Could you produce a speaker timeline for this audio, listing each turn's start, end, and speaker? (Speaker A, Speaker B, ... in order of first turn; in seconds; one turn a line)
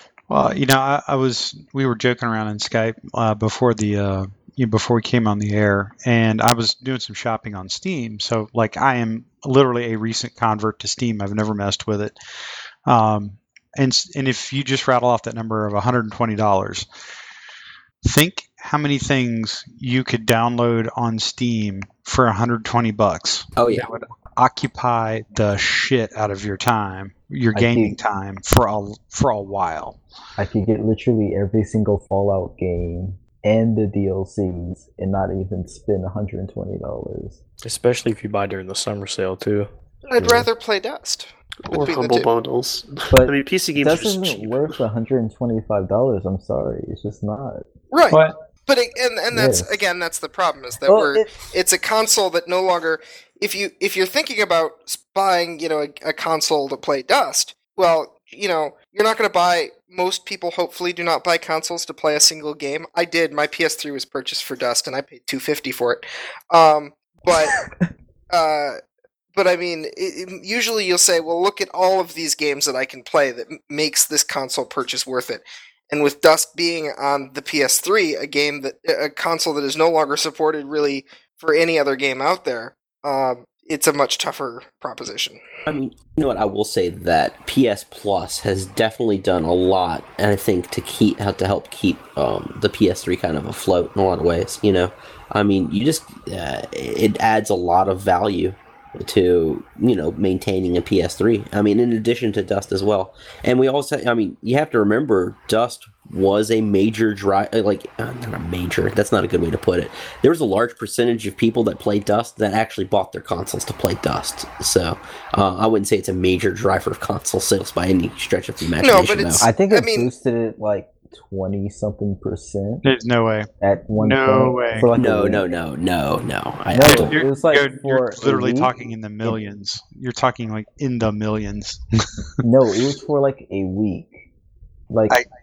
Speaker A: 0.3-12.2
Speaker A: 12.9-16.9
Speaker A: 18.1-30.0
Speaker B: 23.6-23.9
Speaker C: 27.5-28.0
Speaker C: 30.4-37.4
Speaker D: 37.6-39.7
Speaker E: 40.0-42.3
Speaker C: 40.2-40.5
Speaker F: 41.7-44.7
Speaker C: 43.1-47.7
Speaker E: 47.9-67.6
Speaker C: 49.3-49.8
Speaker C: 50.9-51.4
Speaker C: 67.3-67.7
Speaker E: 68.3-68.8
Speaker E: 69.3-85.4
Speaker B: 85.7-119.5
Speaker E: 118.8-120.1
Speaker C: 119.4-122.8
Speaker A: 122.8-124.9
Speaker C: 123.6-125.5
Speaker B: 125.0-127.2
Speaker C: 126.7-129.4
Speaker A: 126.8-131.8
Speaker C: 132.4-134.3
Speaker C: 134.9-135.2